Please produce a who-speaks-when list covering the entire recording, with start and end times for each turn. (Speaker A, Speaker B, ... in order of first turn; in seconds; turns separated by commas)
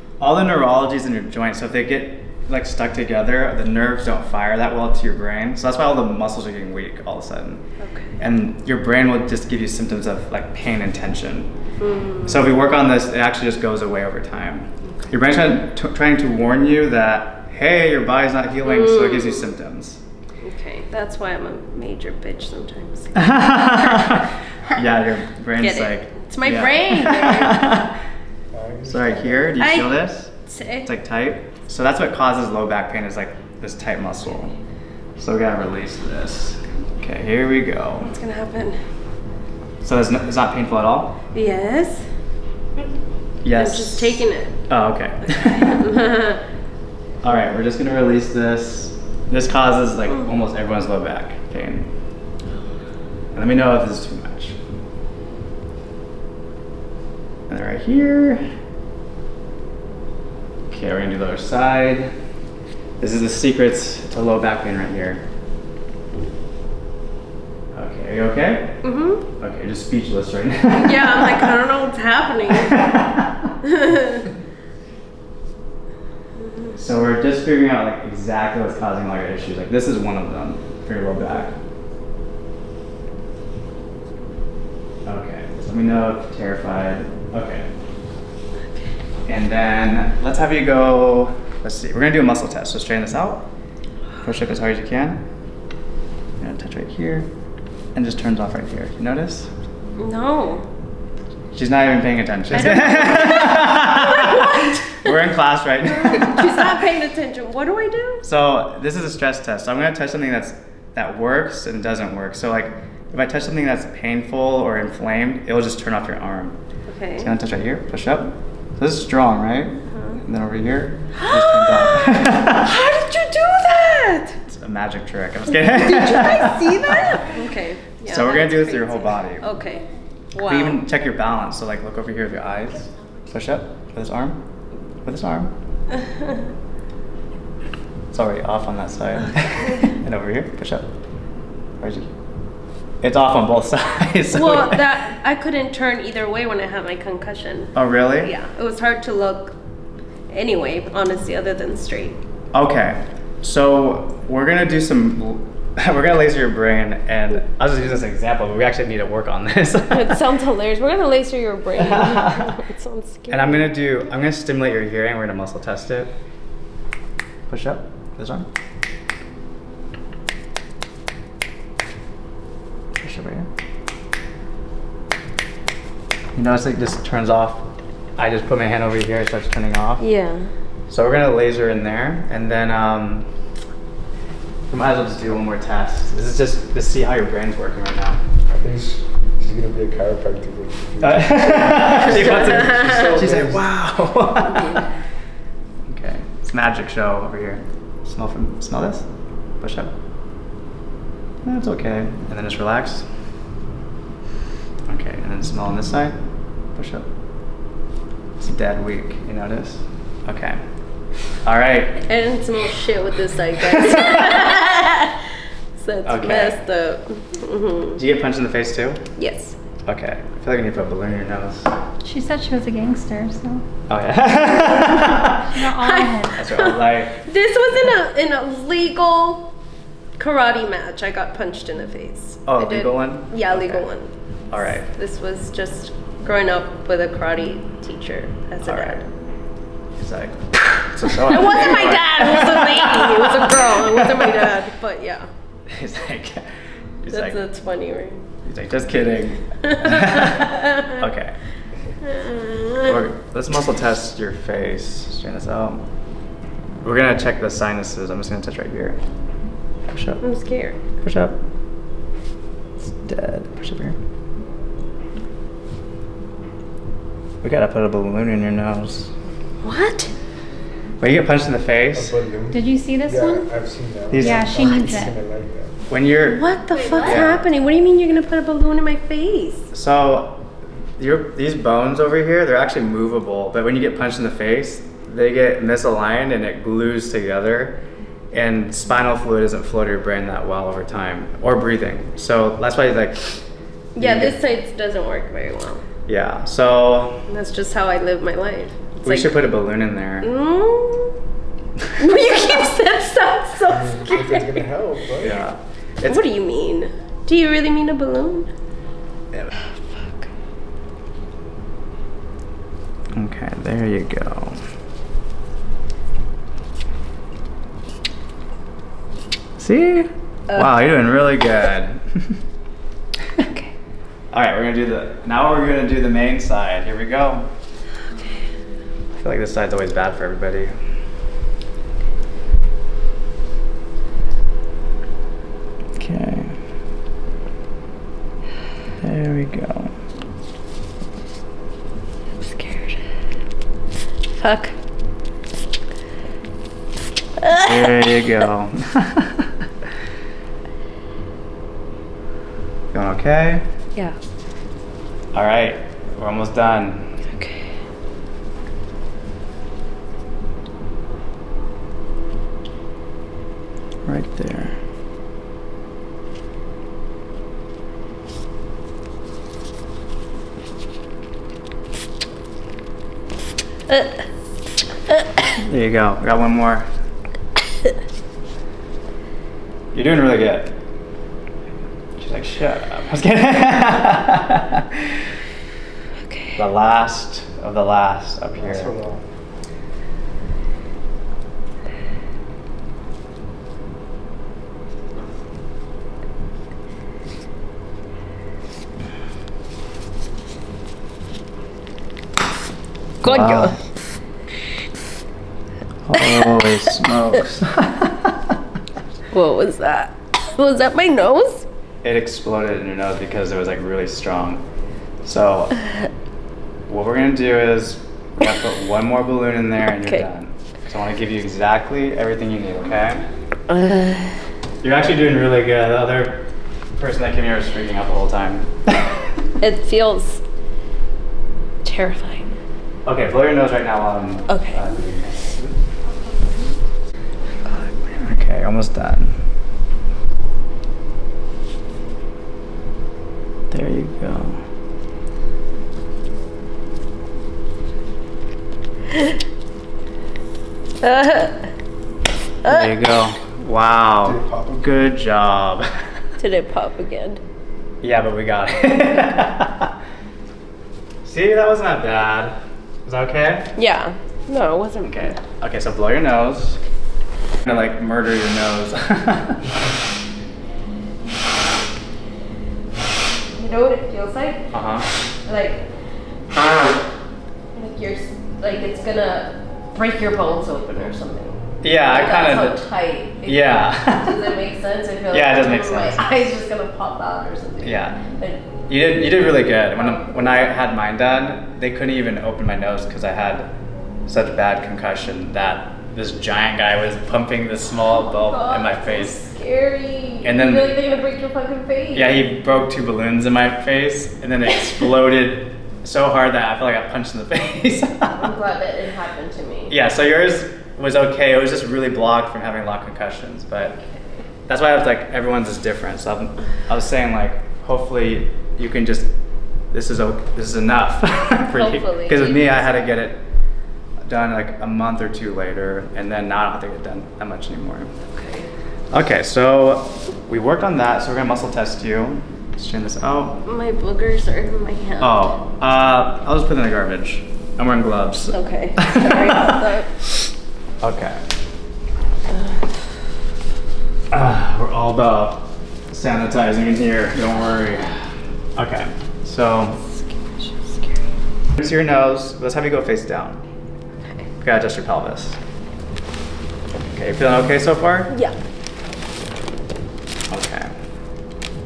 Speaker A: 0.2-7.6, Speaker B: 7.8-8.1, Speaker A: 8.2-11.5, Speaker B: 11.8-12.5, Speaker A: 12.2-20.0, Speaker B: 18.6-19.5, Speaker B: 20.4-24.8, Speaker A: 23.1-28.0, Speaker B: 25.6-27.7, Speaker C: 28.5-29.6, Speaker A: 28.9-30.3, Speaker B: 29.6-30.9, Speaker A: 30.9-34.5, Speaker A: 35.2-38.1, Speaker B: 38.0-38.8, Speaker A: 39.8-41.2, Speaker B: 41.3-42.0, Speaker A: 43.4-45.9, Speaker B: 43.5-44.6, Speaker B: 45.5-46.4, Speaker A: 47.2-51.9, Speaker A: 53.3-54.6, Speaker A: 57.5-58.5, Speaker A: 60.7-62.1, Speaker A: 63.0-65.2, Speaker A: 67.7-68.8, Speaker B: 68.8-69.2, Speaker A: 69.3-71.5, Speaker B: 70.7-72.8, Speaker A: 72.5-73.5, Speaker B: 73.6-74.3, Speaker B: 76.4-76.8, Speaker A: 76.8-81.5, Speaker A: 85.0-87.7, Speaker A: 89.3-93.5, Speaker A: 94.2-95.2, Speaker A: 96.4-97.3, Speaker A: 98.0-99.5, Speaker B: 100.0-100.7, Speaker A: 101.5-106.8, Speaker B: 102.5-105.2, Speaker B: 105.8-108.2, Speaker A: 108.2-116.6, Speaker B: 116.9-117.3, Speaker A: 117.2-122.7, Speaker B: 119.9-120.2, Speaker B: 121.2-124.4, Speaker A: 124.5-127.3, Speaker B: 125.5-130.8, Speaker A: 128.1-129.5, Speaker A: 130.4-134.4, Speaker A: 135.1-135.5, Speaker B: 136.0-136.5, Speaker A: 138.1-140.9, Speaker A: 141.8-142.1, Speaker A: 143.0-144.8, Speaker B: 144.3-149.6, Speaker A: 147.8-148.3, Speaker B: 150.3-152.2, Speaker A: 152.5-160.2, Speaker B: 159.9-163.7, Speaker A: 161.8-162.6, Speaker A: 163.3-166.1, Speaker A: 167.5-168.5, Speaker A: 173.0-173.5, Speaker A: 176.3-177.7, Speaker A: 178.2-180.1, Speaker B: 180.0-180.5, Speaker A: 180.9-183.3, Speaker A: 184.7-188.2, Speaker C: 188.5-193.7, Speaker A: 191.0-194.8, Speaker B: 192.5-192.9, Speaker B: 194.5-194.9, Speaker A: 195.9-199.1, Speaker A: 199.6-199.9, Speaker A: 201.4-203.1, Speaker A: 204.9-206.2, Speaker A: 206.7-207.1, Speaker A: 208.4-210.6, Speaker A: 211.4-212.1, Speaker B: 212.1-215.2, Speaker A: 213.7-214.5, Speaker B: 215.8-218.0, Speaker A: 216.1-216.6, Speaker A: 218.0-219.0, Speaker B: 219.2-219.6, Speaker A: 219.8-221.7, Speaker D: 222.0-223.6, Speaker A: 223.9-225.5, Speaker B: 224.6-225.1, Speaker D: 225.5-226.3, Speaker B: 225.7-229.5, Speaker A: 226.3-227.2, Speaker B: 230.2-234.1, Speaker A: 232.5-233.9, Speaker A: 234.5-234.9, Speaker B: 234.8-239.0, Speaker A: 238.6-239.0, Speaker A: 240.0-244.5, Speaker B: 241.2-245.3, Speaker A: 245.7-246.4, Speaker A: 247.0-247.4, Speaker B: 247.1-248.3, Speaker A: 248.4-251.3, Speaker B: 249.6-251.0, Speaker B: 252.0-253.0, Speaker A: 252.8-255.8, Speaker A: 256.8-259.0, Speaker A: 259.9-260.2, Speaker B: 260.2-260.8, Speaker A: 260.9-261.4, Speaker A: 262.8-264.0, Speaker A: 267.4-269.1, Speaker B: 269.6-270.1, Speaker A: 271.0-272.1, Speaker C: 271.9-275.8, Speaker D: 272.5-273.5, Speaker A: 274.1-275.1, Speaker D: 274.2-275.1, Speaker A: 275.9-277.4, Speaker B: 276.2-279.7, Speaker A: 279.7-280.4, Speaker A: 281.0-287.8, Speaker A: 288.3-293.4, Speaker A: 294.0-294.4, Speaker B: 294.0-295.9, Speaker A: 296.1-297.3, Speaker B: 297.3-299.5, Speaker A: 299.0-300.3, Speaker B: 300.2-301.2, Speaker B: 302.0-304.8, Speaker C: 303.7-305.4, Speaker A: 305.2-306.2, Speaker B: 306.0-308.5, Speaker B: 309.6-310.2, Speaker A: 313.1-314.6, Speaker A: 319.6-322.4, Speaker B: 323.5-323.7, Speaker A: 324.3-327.5, Speaker B: 328.2-328.4, Speaker A: 329.1-330.7, Speaker A: 336.0-336.6, Speaker A: 339.0-339.9, Speaker B: 342.4-343.0, Speaker B: 344.4-344.8, Speaker B: 347.4-348.2, Speaker A: 347.6-349.5, Speaker A: 352.9-353.6, Speaker A: 355.3-357.1, Speaker B: 357.3-357.7, Speaker A: 364.1-364.8, Speaker B: 373.9-374.2, Speaker A: 375.6-376.9, Speaker A: 379.9-380.7, Speaker A: 382.2-385.2, Speaker A: 386.6-388.9, Speaker C: 388.6-389.2, Speaker A: 403.2-403.8, Speaker B: 403.2-403.8, Speaker A: 406.1-408.4, Speaker B: 409.3-411.7, Speaker A: 412.0-414.6, Speaker A: 415.2-415.8, Speaker A: 416.9-423.3, Speaker B: 423.7-424.3, Speaker A: 424.8-426.4, Speaker A: 427.0-429.2, Speaker B: 429.6-430.4, Speaker B: 431.8-432.5, Speaker A: 433.1-435.8, Speaker B: 434.5-434.9, Speaker A: 438.0-439.4, Speaker A: 443.7-444.6, Speaker B: 451.0-451.7, Speaker B: 452.6-452.9, Speaker A: 452.6-456.0, Speaker C: 454.2-455.1, Speaker B: 456.4-457.4, Speaker A: 458.0-459.9, Speaker A: 461.2-463.7, Speaker B: 463.8-465.4, Speaker A: 465.0-466.8, Speaker A: 467.6-469.7, Speaker B: 473.5-474.7, Speaker A: 474.7-475.1, Speaker B: 475.5-475.9, Speaker B: 476.5-477.0, Speaker B: 477.8-488.8, Speaker A: 481.8-482.8, Speaker A: 483.4-484.4, Speaker A: 485.3-486.3, Speaker A: 487.8-488.2, Speaker A: 488.9-493.7, Speaker B: 489.9-490.8, Speaker A: 494.3-499.4, Speaker B: 498.3-502.5, Speaker A: 500.4-501.0, Speaker A: 502.1-508.5, Speaker B: 508.4-509.9, Speaker A: 509.9-514.0, Speaker B: 513.8-514.4, Speaker A: 514.7-519.3, Speaker A: 519.9-523.4, Speaker B: 521.7-523.1, Speaker A: 524.3-528.1, Speaker B: 528.3-528.7, Speaker A: 529.1-533.6, Speaker B: 533.6-535.5, Speaker A: 535.2-539.8, Speaker B: 538.5-540.1, Speaker A: 541.0-541.4, Speaker B: 542.6-542.8, Speaker A: 544.3-548.2, Speaker A: 548.8-550.0, Speaker B: 550.0-551.2, Speaker A: 551.8-553.6, Speaker B: 554.2-554.5, Speaker A: 554.6-555.6, Speaker A: 557.0-558.3, Speaker B: 558.3-558.5, Speaker A: 560.5-560.9